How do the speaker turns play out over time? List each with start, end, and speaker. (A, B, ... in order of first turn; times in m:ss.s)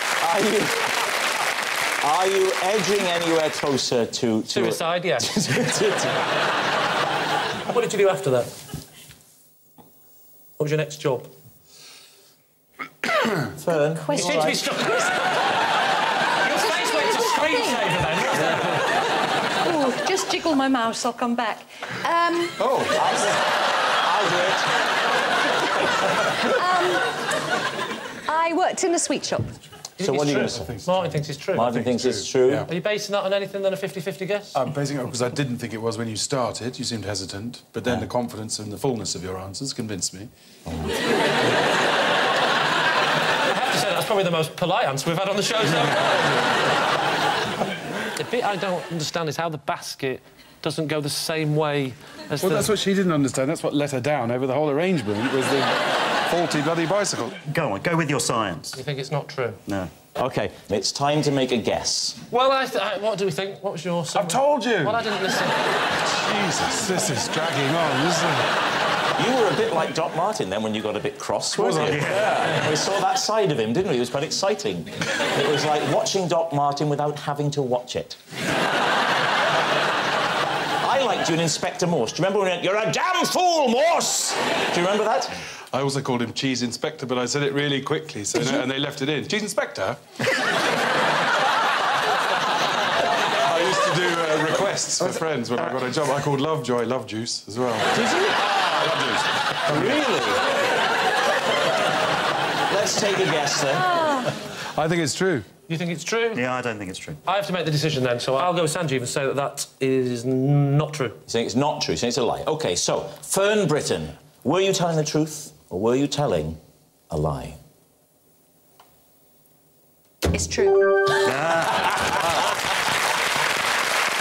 0:00.2-0:01.0 A
0:02.0-0:06.2 A
0:04.5-0:05.3 B
0:07.7-0:08.5 B
0:10.6-0:11.3 B
0:13.6-0:14.6 A
0:14.0-0:15.2 C
0:14.1-0:15.4 B
0:16.4-0:18.9 B
0:16.5-0:18.1 C
0:19.6-0:22.6 C
0:22.6-0:23.0 D
0:23.0-0:24.7 A
0:26.4-0:27.1 C
0:28.2-0:29.6 C
0:30.0-0:31.8 B
0:30.0-0:30.8 A
0:30.2-0:32.7 D
0:31.5-0:32.7 A
0:32.6-0:34.6 B
0:34.5-0:40.3 D
0:40.7-0:41.0 A
0:43.5-0:46.3 B
0:48.2-0:52.7 B
0:52.4-0:55.8 D
0:56.3-0:57.4 D
0:57.5-0:58.8 E
0:58.7-0:59.6 B
1:00.2-1:02.2 A
1:02.3-1:05.6 B
1:04.1-1:05.0 D
1:06.0-1:08.5 D
1:09.2-1:18.2 A
1:11.6-1:12.1 D
1:11.8-1:12.6 E
1:20.8-1:25.4 A
1:25.7-1:30.0 D
1:33.4-1:38.3 D
1:38.1-1:39.2 A
1:39.7-1:40.0 D
1:39.7-1:40.4 A
1:42.7-1:44.1 A
1:44.7-1:45.5 D
1:45.7-1:46.4 B
1:46.3-1:47.2 E
1:47.2-1:51.2 B
1:51.3-1:57.6 A
2:00.3-2:00.9 C
2:01.2-2:02.5 E